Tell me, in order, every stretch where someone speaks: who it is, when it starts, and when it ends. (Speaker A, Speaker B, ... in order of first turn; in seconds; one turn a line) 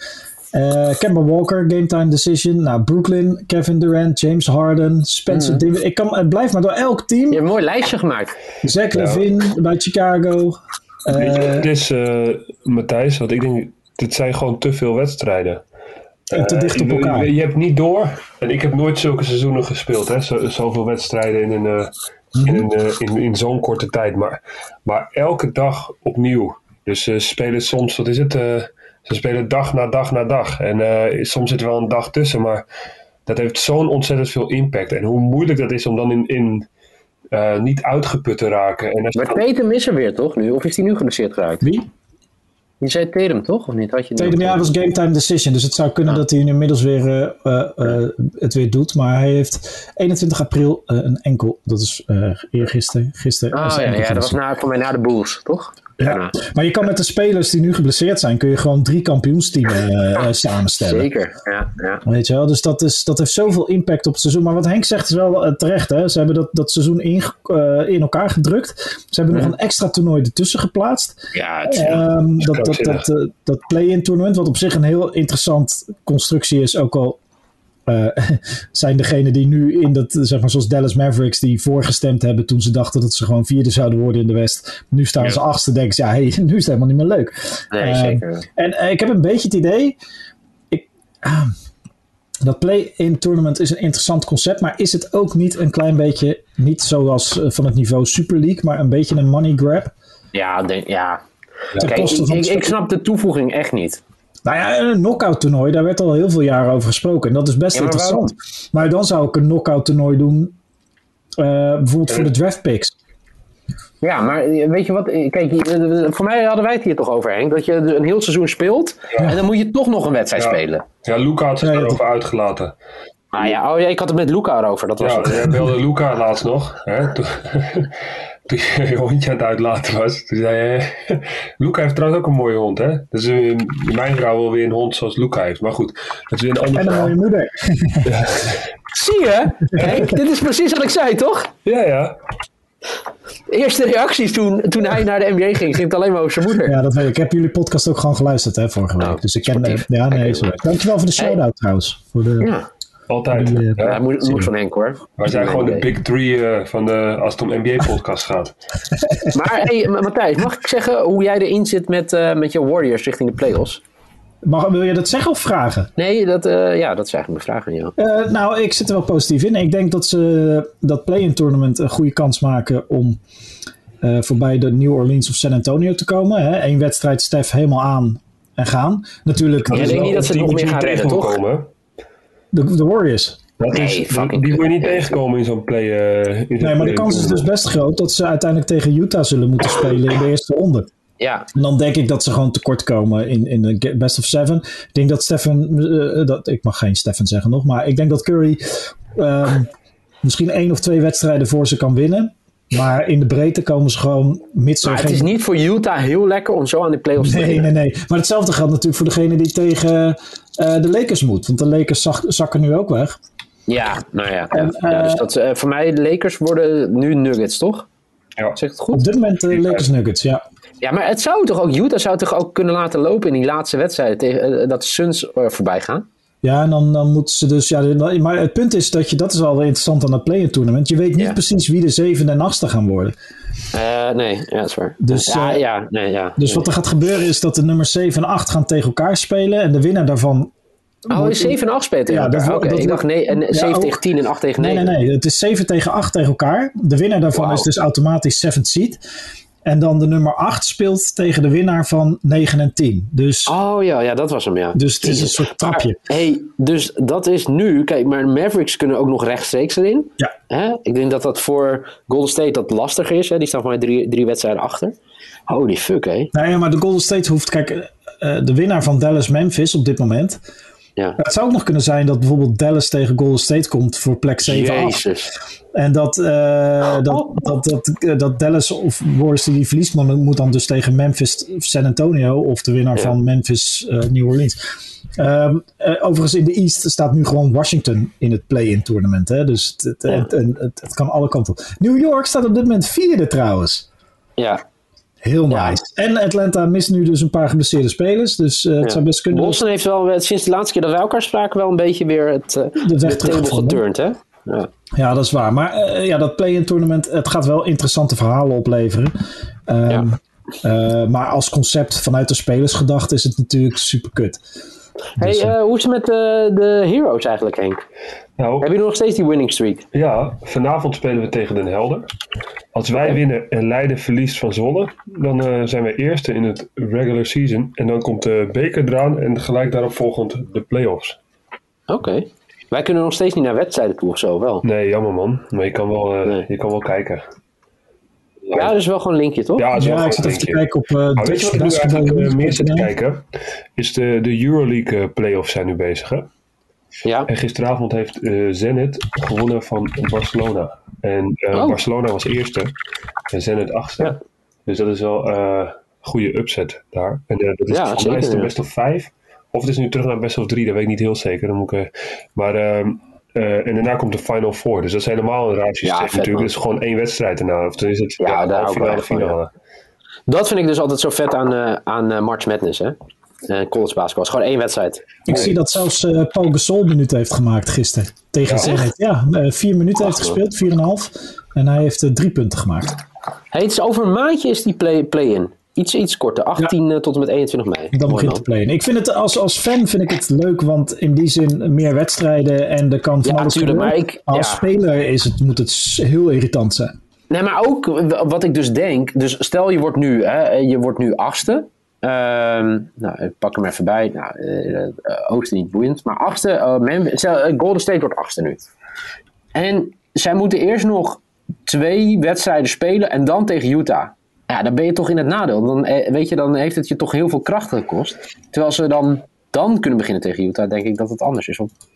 Speaker A: 0.5-7.4
Speaker B: 5.3-5.6
Speaker B: 7.3-8.3
Speaker A: 8.6-11.7
Speaker C: 8.9-9.2
Speaker C: 11.1-15.6
Speaker C: 16.3-32.6
Speaker A: 16.3-17.3
Speaker A: 22.4-22.6
Speaker C: 33.2-36.7
Speaker C: 37.3-39.4
Speaker B: 39.1-41.6
Speaker A: 41.6-41.9
Speaker B: 42.8-44.7
Speaker A: 44.1-54.4
Speaker B: 53.5-56.3
Speaker A: 56.0-61.1
Speaker B: 60.8-62.0
Speaker A: 62.0-77.2
Speaker B: 71.3-72.0
Speaker C: 72.4-73.1
Speaker A: 77.8-90.0
Speaker B: 87.7-88.4
Speaker A: 90.7-91.5
Speaker A: 92.4-99.9
Speaker B: 100.3-101.2
Speaker B: 101.7-104.0
Speaker A: 101.8-102.7
Speaker A: 104.5-110.5
Speaker B: 107.7-108.3
Speaker A: 111.4-112.9
Speaker B: 114.0-120.8
Speaker C: 120.3-122.7
Speaker A: 121.6-122.0
Speaker B: 123.3-125.5
Speaker C: 125.0-137.2
Speaker A: 136.7-138.2
Speaker C: 138.0-138.7
Speaker B: 138.9-141.5
Speaker C: 141.6-142.2
Speaker B: 143.5-146.8
Speaker A: 146.6-152.5
Speaker B: 149.0-150.5
Speaker B: 152.4-152.7
Speaker C: 153.1-154.1
Speaker A: 153.3-154.5
Speaker B: 153.8-155.8
Speaker C: 155.2-158.5
Speaker B: 159.3-163.8
Speaker A: 164.4-165.9
Speaker B: 166.0-167.9
Speaker A: 168.0-173.2
Speaker A: 174.0-180.5
Speaker C: 179.7-181.7
Speaker B: 179.7-181.4
Speaker A: 182.5-183.4
Speaker C: 183.6-187.4
Speaker B: 183.7-185.2
Speaker A: 186.6-190.9
Speaker B: 191.2-191.4
Speaker A: 191.5-199.7
Speaker A: 200.2-205.3
Speaker B: 204.8-207.7
Speaker A: 207.2-213.2
Speaker B: 213.7-217.9
Speaker A: 214.5-215.2
Speaker B: 218.6-219.1
Speaker A: 218.9-220.4
Speaker C: 219.6-219.8
Speaker B: 220.8-226.1
Speaker A: 226.4-233.1
Speaker B: 233.7-236.6
Speaker A: 235.0-235.6
Speaker A: 236.4-240.5
Speaker A: 241.1-241.6
Speaker B: 241.1-244.9
Speaker A: 242.1-244.0
Speaker A: 244.6-249.0
Speaker B: 247.3-247.7
Speaker A: 249.6-253.5
Speaker B: 253.5-264.9
Speaker A: 254.7-256.0
Speaker B: 265.5-266.3
Speaker A: 266.3-270.4
Speaker A: 271.2-275.1
Speaker B: 274.4-275.3
Speaker A: 275.7-284.6
Speaker B: 277.1-277.5
Speaker A: 285.2-293.9
Speaker A: 295.2-299.6
Speaker B: 295.5-295.8
Speaker B: 298.8-304.7
Speaker A: 302.8-303.8
Speaker A: 304.9-309.1
Speaker A: 309.7-314.4
Speaker A: 315.2-315.5
Speaker B: 315.2-317.8
Speaker C: 318.4-318.7
Speaker B: 318.6-319.8
Speaker C: 319.9-322.1
Speaker C: 322.7-331.2
Speaker B: 331.9-334.6
Speaker C: 334.6-337.2
Speaker C: 338.5-338.7
Speaker B: 338.5-339.7
Speaker C: 339.6-340.6
Speaker A: 339.8-342.9
Speaker C: 341.2-346.3
Speaker B: 347.0-347.3
Speaker C: 347.3-352.7
Speaker B: 351.5-351.8
Speaker C: 353.3-354.1
Speaker C: 354.7-369.5
Speaker B: 357.7-358.5
Speaker B: 365.8-366.5
Speaker B: 368.2-369.4
Speaker B: 370.3-372.9
Speaker B: 373.5-375.5
Speaker A: 375.3-383.0
Speaker C: 378.4-378.8
Speaker B: 383.5-388.4
Speaker A: 387.9-396.9
Speaker B: 393.2-394.6
Speaker B: 397.3-408.7
Speaker B: 409.5-421.7